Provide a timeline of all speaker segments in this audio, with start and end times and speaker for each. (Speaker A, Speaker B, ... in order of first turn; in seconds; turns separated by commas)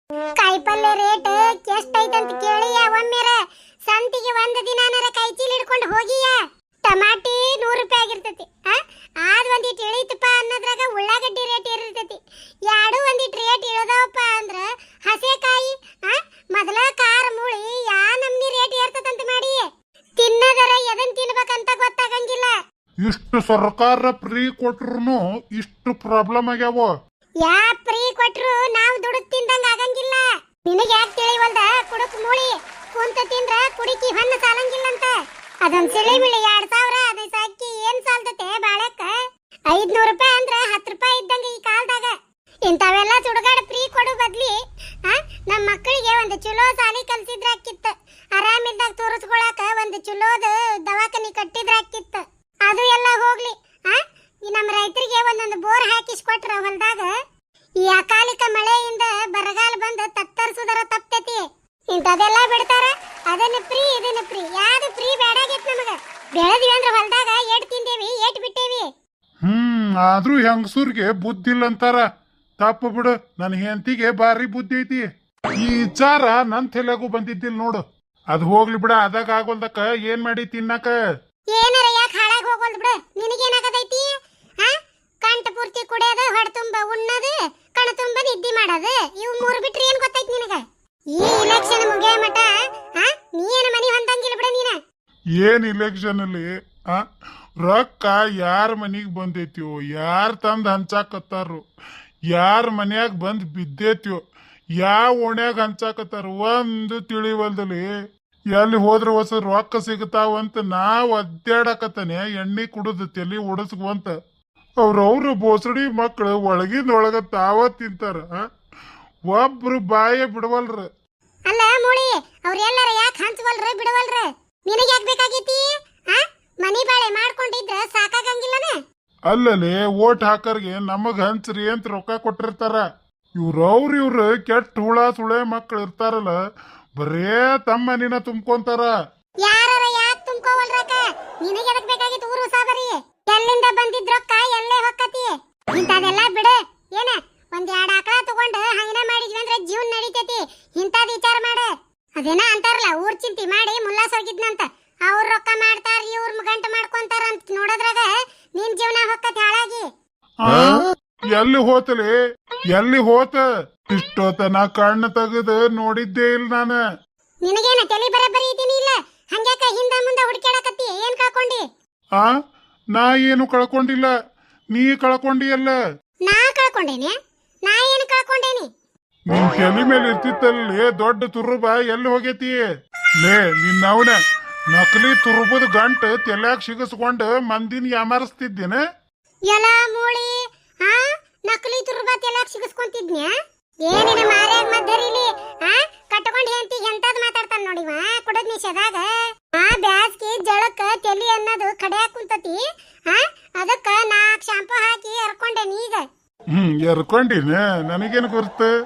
Speaker A: 0.3-19.7, Speaker A: 20.2-22.6, Speaker B: 23.0-26.9, Speaker A: 27.4-42.1, Speaker A: 42.7-57.1, Speaker A: 57.8-68.9, Speaker B: 69.4-72.0, Speaker B: 72.6-80.9, Speaker A: 81.5-90.6, Speaker A: 91.1-94.8, Speaker B: 95.4-97.0, Speaker B: 97.6-101.6, Speaker B: 102.3-104.2, Speaker B: 104.8-107.9, Speaker B: 108.5-114.1, Speaker B: 114.8-118.4, Speaker B: 119.3-120.9, Speaker A: 121.5-128.8, Speaker B: 129.3-132.8, Speaker B: 133.4-136.3, Speaker B: 137.0-138.9, Speaker A: 139.4-159.9, Speaker B: 160.4-162.1, Speaker B: 162.7-166.8, Speaker A: 167.4-171.6, Speaker B: 172.9-174.1, Speaker B: 174.7-175.8, Speaker A: 176.2-177.1, Speaker A: 177.7-178.7, Speaker B: 179.3-182.6, Speaker B: 183.2-184.2, Speaker B: 184.7-188.8, Speaker A: 189.5-193.3, Speaker A: 193.8-206.1, Speaker B: 206.5-208.7